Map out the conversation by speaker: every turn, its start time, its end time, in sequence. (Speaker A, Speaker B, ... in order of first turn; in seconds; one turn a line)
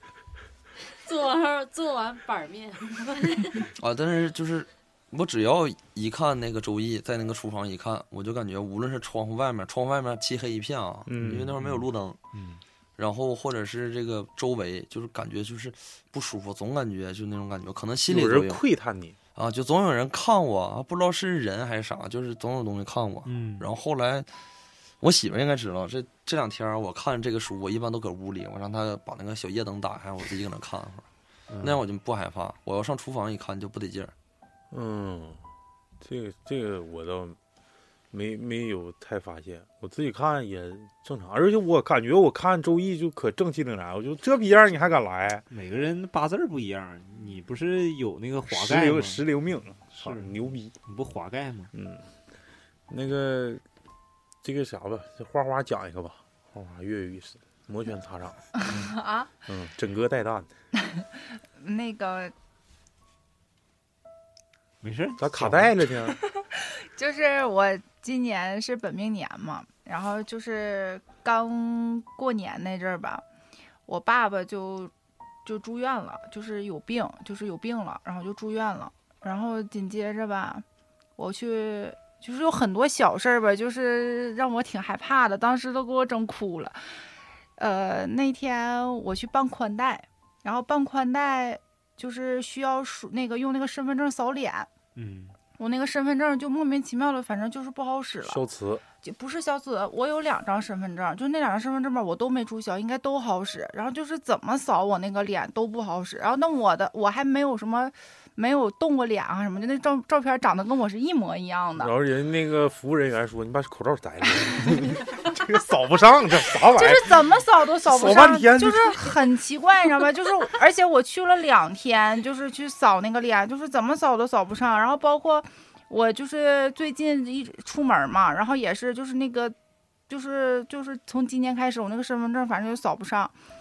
Speaker A: 1.0-3.6
Speaker B: 3.8-12.2
Speaker C: 11.1-11.5
Speaker D: 11.6-12.6
Speaker B: 13.0-18.6
Speaker C: 18.1-19.2
Speaker B: 19.4-24.4
Speaker D: 23.3-23.7
Speaker B: 25.0-31.1
Speaker D: 31.5-31.8
Speaker B: 31.6-34.1
Speaker C: 34.7-35.4
Speaker C: 36.0-37.4
Speaker C: 38.1-45.4
Speaker D: 45.5-49.2
Speaker C: 48.5-50.7
Speaker D: 49.9-51.7
Speaker C: 51.7-52.1
Speaker C: 52.9-53.6
Speaker C: 54.4-58.8
Speaker E: 58.6-59.3
Speaker C: 59.5-60.5
Speaker E: 60.8-62.3
Speaker D: 64.8-65.7
Speaker C: 65.2-66.2
Speaker E: 66.1-73.2
Speaker E: 73.8-74.9
Speaker E: 75.4-80.6
Speaker E: 81.2-86.9
Speaker E: 87.6-94.7
Speaker D: 94.9-95.3
Speaker E: 95.6-98.4
Speaker C: 98.2-98.8
Speaker E: 99.0-111.9
Speaker C: 111.8-117.3
Speaker E: 116.7-129.5
Speaker C: 117.8-119.1
Speaker E: 130.1-133.3